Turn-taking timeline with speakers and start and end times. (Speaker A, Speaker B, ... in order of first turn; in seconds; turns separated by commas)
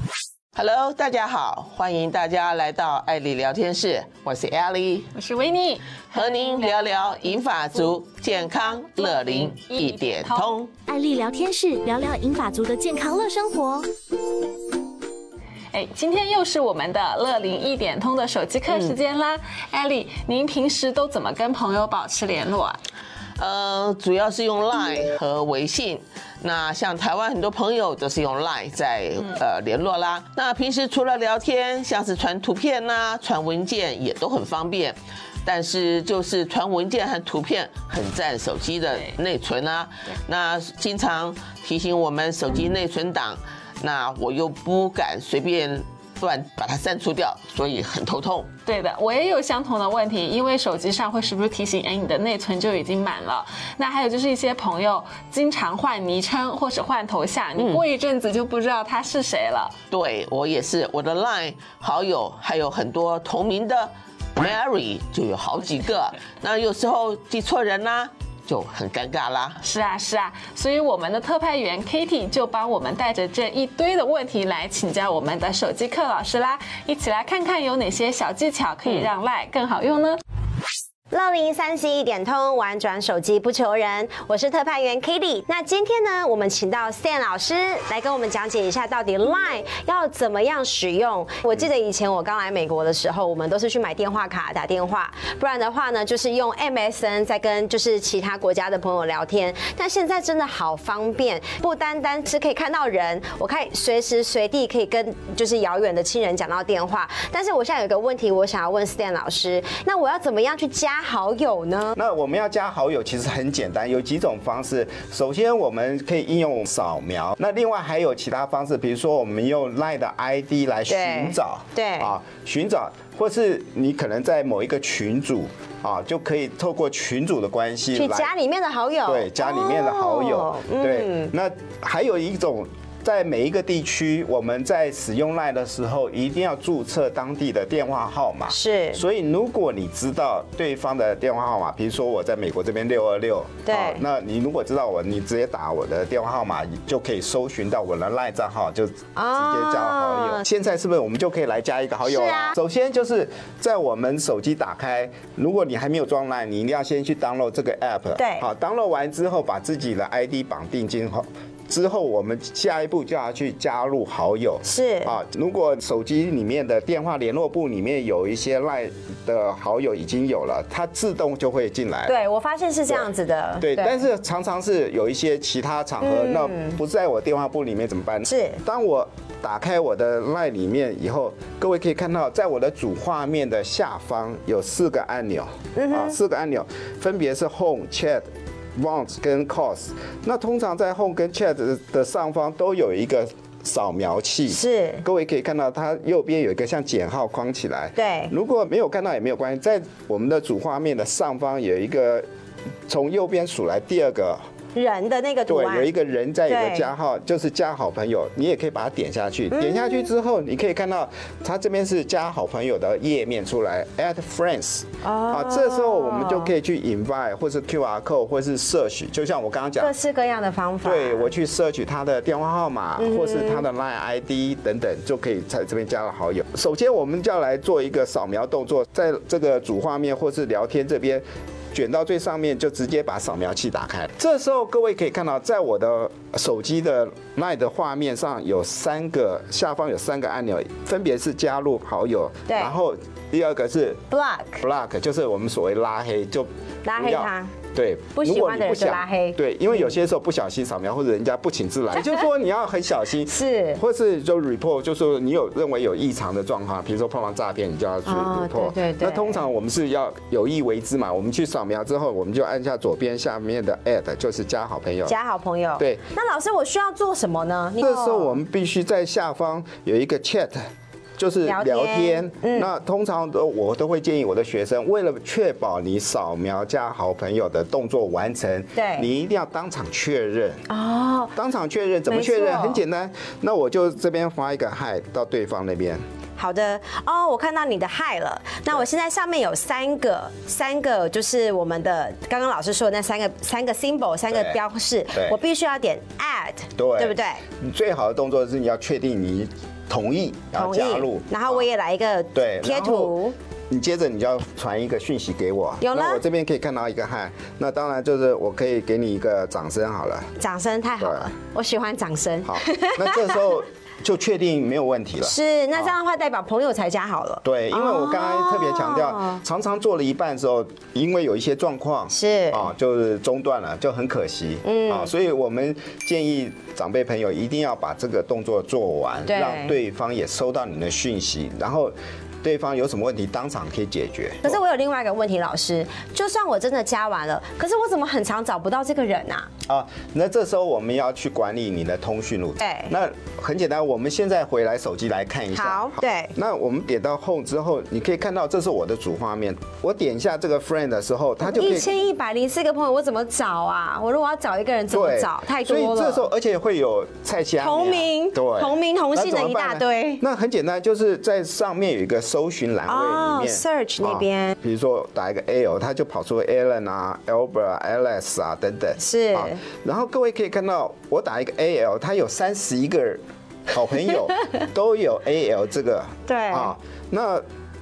Speaker A: 0.5-5.1, Speaker B: 5.1-7.9, Speaker A: 6.1-10.8, Speaker B: 8.4-10.7, Speaker C: 10.8-13.9, Speaker B: 15.7-22.8, Speaker A: 18.7-18.9, Speaker A: 23.4-48.5, Speaker B: 48.6-59.7, Speaker A: 57.5-57.8, Speaker A: 59.9-69.6, Speaker B: 69.6-80.2, Speaker D: 81.1-111.9, Speaker E: 111.9-128.3, Speaker D: 120.9-122.2, Speaker D: 127.9-131.3, Speaker E: 129.0-172.1, Speaker D: 138.5-139.0, Speaker D: 143.7-144.0, Speaker D: 149.1-150.4, Speaker D: 152.0-152.6, Speaker D: 158.1-158.4, Speaker D: 164.6-165.2, Speaker D: 172.1-174.0, Speaker E: 172.9-202.2, Speaker D: 176.0-176.7, Speaker D: 178.2-178.6, Speaker D: 185.8-186.2, Speaker D: 194.5-195.0, Speaker D: 197.9-198.3, Speaker E: 202.9-204.4, Speaker D: 204.7-205.9, Speaker E: 205.5-219.9, Speaker D: 206.4-206.9, Speaker D: 209.5-210.1, Speaker D: 215.0-216.5, Speaker D: 219.8-221.3, Speaker E: 220.8-244.0, Speaker D: 223.0-223.6, Speaker D: 242.5-242.8, Speaker D: 244.1-244.6, Speaker E: 244.6-265.1, Speaker D: 246.8-247.5, Speaker D: 248.2-249.9, Speaker D: 253.2-253.8, Speaker D: 258.0-259.4, Speaker D: 265.0-268.4, Speaker E: 267.8-270.6, Speaker E: 271.2-280.6, Speaker D: 271.4-272.7, Speaker D: 278.7-279.1, Speaker D: 280.7-281.3, Speaker E: 281.3-286.0, Speaker D: 282.1-282.8, Speaker D: 286.4-297.4, Speaker E: 294.3-294.6, Speaker E: 295.1-295.4, Speaker E: 296.8-301.7, Speaker D: 300.5-303.3, Speaker E: 302.3-303.2, Speaker E: 303.7-310.3, Speaker D: 305.8-306.2, Speaker D: 310.4-313.4, Speaker E: 311.0-311.3, Speaker E: 312.4-315.9, Speaker D: 315.2-319.4, Speaker E: 317.4-334.6, Speaker D: 322.1-322.7, Speaker D: 324.6-325.1, Speaker D: 329.2-329.8, Speaker D: 334.4-339.5, Speaker E: 339.6-351.9, Speaker D: 342.6-342.9, Speaker D: 345.5-346.3, Speaker D: 351.4-356.2, Speaker E: 354.9-377.4, Speaker D: 357.6-360.2, Speaker D: 362.9-364.5, Speaker D: 369.0-369.6, Speaker D: 376.2-376.7